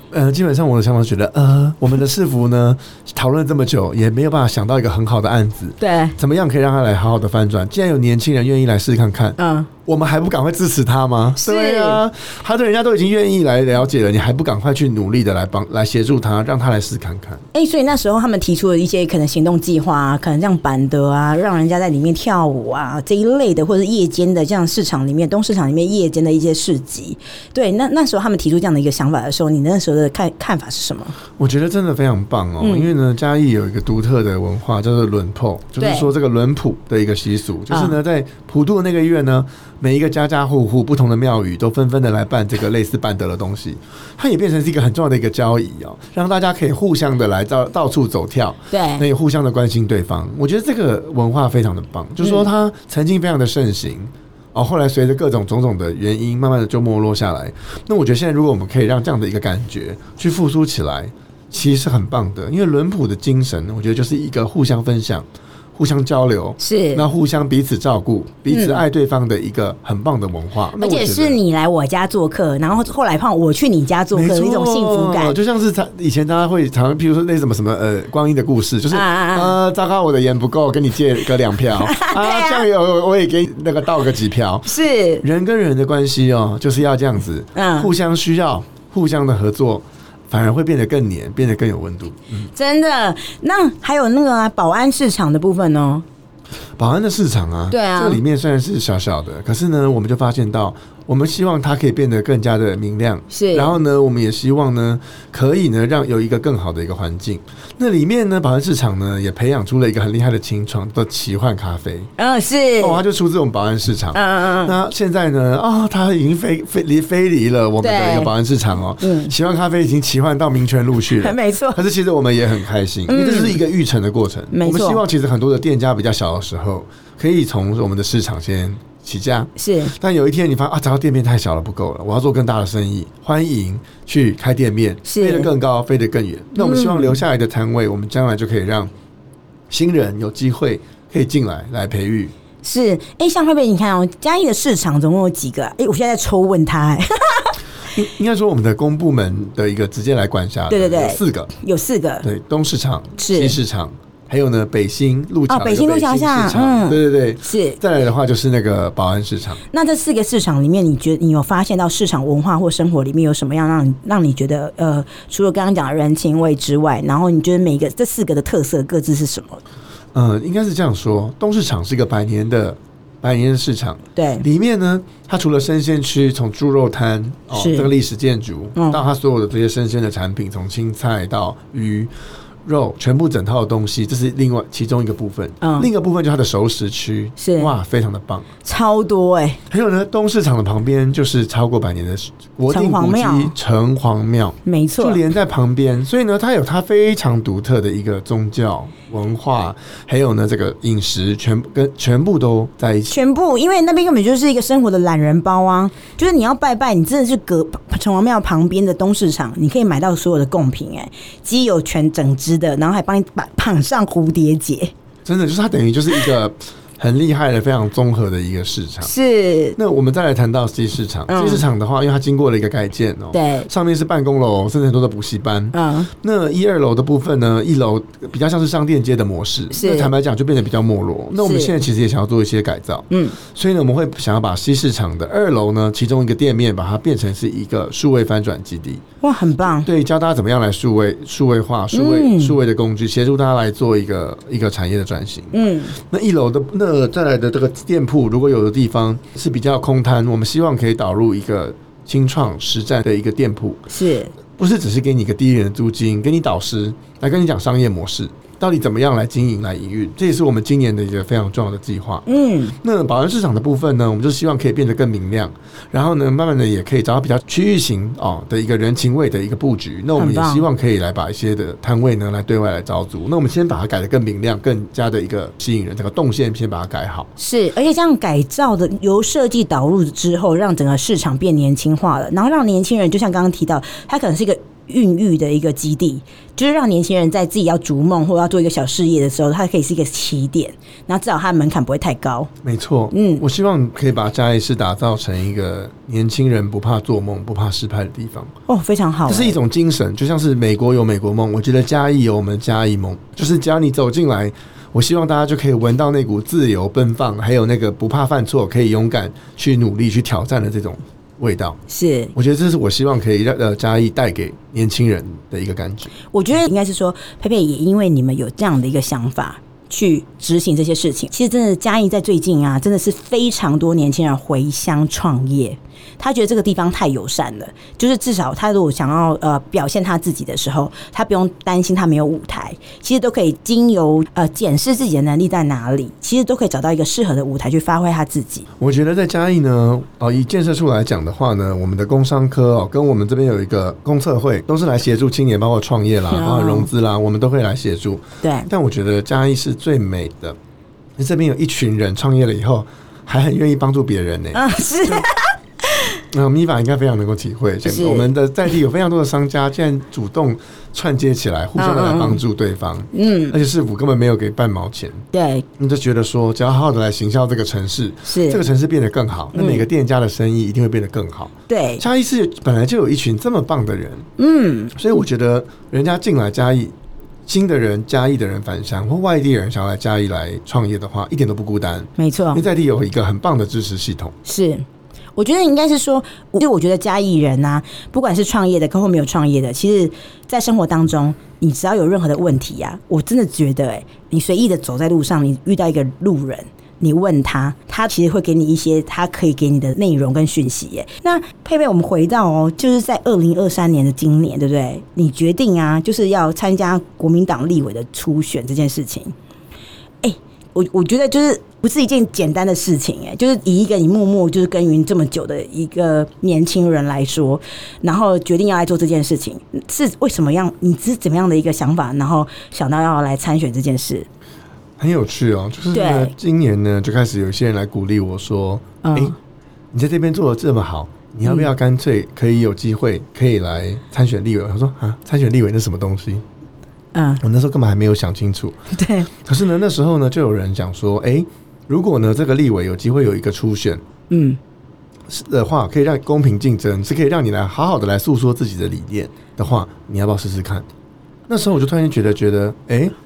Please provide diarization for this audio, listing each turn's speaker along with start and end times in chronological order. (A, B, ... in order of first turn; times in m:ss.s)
0:00.1-0:17.4 A
0:05.8-0:06.2 B
0:09.4-0:09.7 B
0:11.4-0:12.0 B
0:17.5-0:31.1 B
0:31.4-1:11.4 A
0:32.6-0:32.9 B
0:35.8-0:36.1 B
0:37.7-0:38.0 B
0:48.7-0:49.0 B
0:52.2-0:52.5 B
1:06.6-1:07.0 B
1:08.5-1:08.8 B
1:10.8-1:15.4 B
1:14.1-1:32.5 A
1:18.9-1:19.6 B
1:21.9-1:22.7 B
1:24.7-1:25.2 B
1:27.6-1:27.9 B
1:32.6-1:36.0 B
1:36.8-1:52.1 A
1:37.7-1:38.2 B
1:43.3-1:43.8 B
1:52.2-1:53.0 B
1:52.8-2:18.9 A
1:54.1-1:54.8 B
1:57.8-1:58.3 B
1:59.0-1:59.3 B
2:01.2-2:01.8 B
2:03.1-2:03.6 B
2:04.5-2:05.0 B
2:09.6-2:09.9 B
2:15.1-2:15.5 B
2:16.6-2:17.2 B
2:19.7-2:22.3 A
2:22.6-2:27.5 B
2:27.9-2:31.5 A
2:30.7-2:32.3 B
2:32.2-2:39.6 A
2:33.2-2:33.6 B
2:35.5-2:37.8 B
2:39.7-2:49.6 B
2:50.1-3:02.1 A
2:54.2-2:54.4 B
2:57.5-2:57.9 B
2:58.8-2:59.0 B
3:02.6-3:08.5 A
3:05.6-3:05.9 B
3:07.4-3:07.7 B
3:08.6-3:09.6 B
3:09.7-3:23.2 A
3:12.7-3:13.5 B
3:14.7-3:15.2 B
3:23.1-3:34.9 B
3:35.2-3:39.1 A
3:39.0-3:39.8 B
3:39.8-3:59.0 A
3:41.3-3:41.6 B
3:43.3-3:43.7 B
3:45.7-3:46.1 B
3:49.7-3:50.1 B
3:51.4-3:51.7 B
3:53.1-3:53.4 B
3:59.2-3:59.9 B
3:59.8-4:13.8 A
4:01.9-4:02.6 B
4:05.5-4:06.0 B
4:13.9-4:14.3 B
4:14.6-4:22.2 A
4:22.3-4:22.8 B
4:22.8-4:37.3 A
4:30.2-4:30.6 B
4:37.4-4:52.5 B
4:52.6-4:58.5 A
4:53.1-4:53.4 B
4:58.7-4:59.6 B
4:59.3-5:11.8 A
5:11.9-5:12.3 B
5:12.3-5:16.1 A
5:16.3-5:38.7 B
5:38.8-5:50.6 A
5:46.3-5:46.9 B
5:48.4-5:48.7 B
5:51.2-5:55.3 A
5:54.5-5:56.1 B
5:56.3-6:05.2 A
5:57.8-5:58.3 B
6:01.8-6:02.4 B
6:03.1-6:03.6 B
6:05.3-6:05.6 B
6:05.8-6:14.3 A
6:08.3-6:08.6 B
6:09.5-6:09.8 B
6:11.7-6:12.0 B
6:14.4-6:14.9 B
6:14.9-6:17.0 A
6:17.5-6:24.4 A
6:22.2-6:22.6 B
6:24.4-6:24.8 B
6:25.4-6:49.3 B
6:50.2-7:04.3 B
7:05.0-7:09.4 A
7:05.9-7:06.3 B
7:09.0-7:09.4 B
7:09.9-7:16.4 A
7:17.1-7:17.4 B
7:17.4-7:18.8 A
7:18.9-7:19.3 B
7:19.3-7:24.0 A
7:24.3-7:24.6 B
7:25.3-7:30.9 A
7:31.5-7:33.2 A